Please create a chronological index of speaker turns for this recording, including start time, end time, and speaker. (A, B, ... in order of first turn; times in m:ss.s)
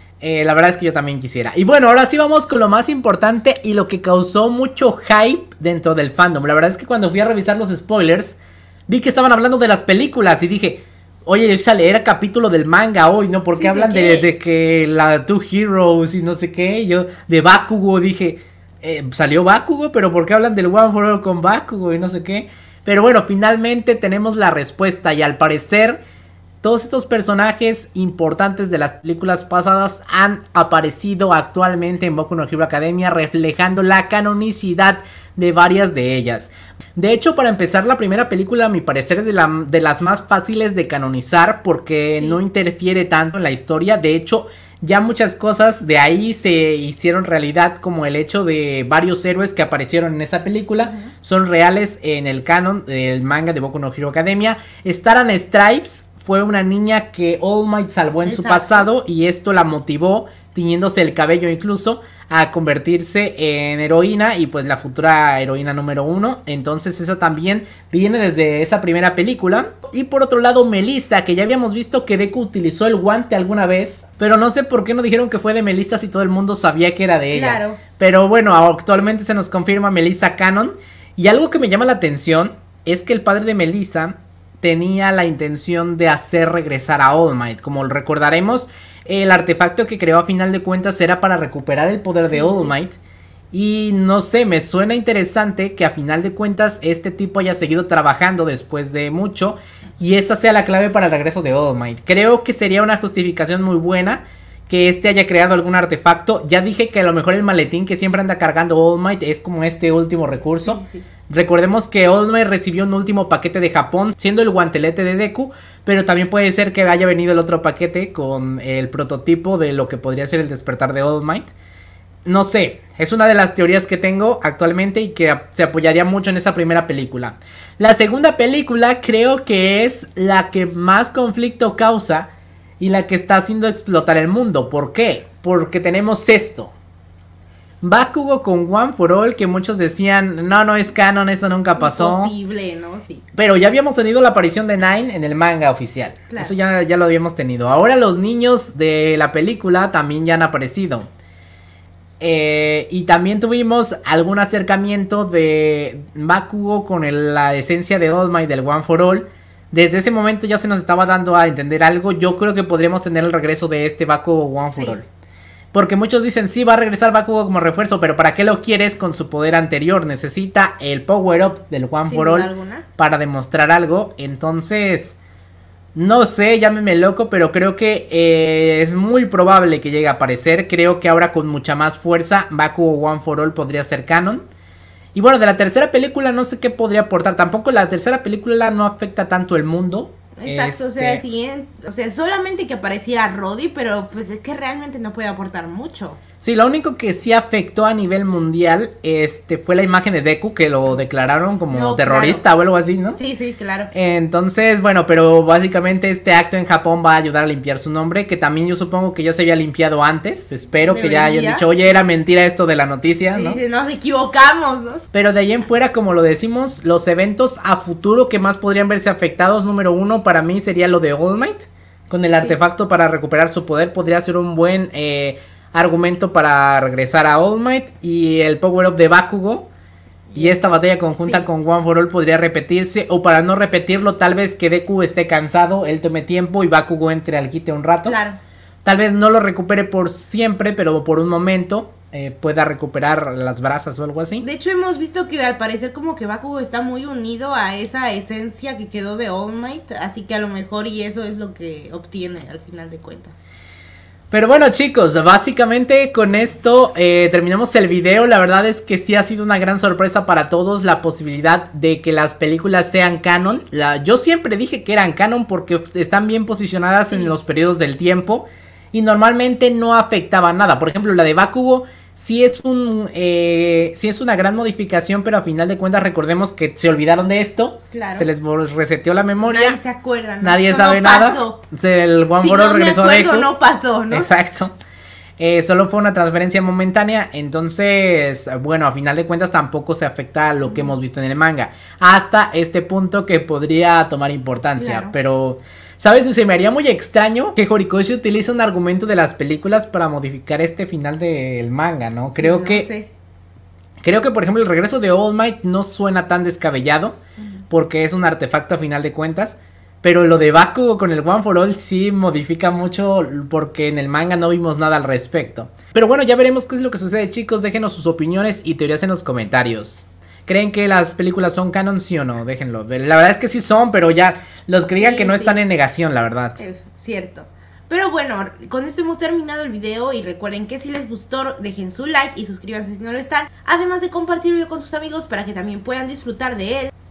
0:00.2-0:26.0 A
0:13.5-0:14.3 B
0:26.6-1:33.0 A
0:42.1-0:42.4 B
0:50.8-0:51.1 B
0:58.2-0:58.9 B
1:17.3-1:17.8 B
1:32.2-1:32.8 B
1:33.5-2:01.5 A
1:50.6-1:51.1 B
2:02.3-2:16.7 A
2:17.8-2:22.3 A
2:21.8-2:23.2 B
2:23.3-2:31.1 A
2:26.3-2:26.6 B
2:32.2-2:45.1 A
2:44.7-2:45.0 B
2:45.7-2:55.2 A
2:52.0-2:52.9 B
2:56.0-3:04.4 A
3:05.2-3:11.2 A
3:10.4-3:16.2 B
3:16.4-3:23.2 A
3:21.7-3:22.4 B
3:23.1-3:23.9 B
3:23.9-3:33.6 A
3:30.8-3:31.7 B
3:33.3-3:35.0 B
3:35.1-3:49.7 A
3:50.3-3:51.5 B
3:50.4-3:58.2 A
3:58.0-3:58.4 B
3:58.8-4:04.4 A
4:04.4-4:13.4 B
4:14.3-4:39.8 A
4:27.1-4:27.3 B
4:37.9-4:38.3 B
4:39.4-4:41.6 B
4:40.4-4:43.5 A
4:42.4-4:44.5 B
4:44.1-4:44.7 A
4:45.4-5:02.9 A
4:50.7-4:50.9 B
4:54.8-4:55.1 B
5:02.4-5:03.1 B
5:04.0-5:07.2 A
5:07.7-5:26.6 A
5:24.8-5:25.6 B
5:26.6-5:36.9 B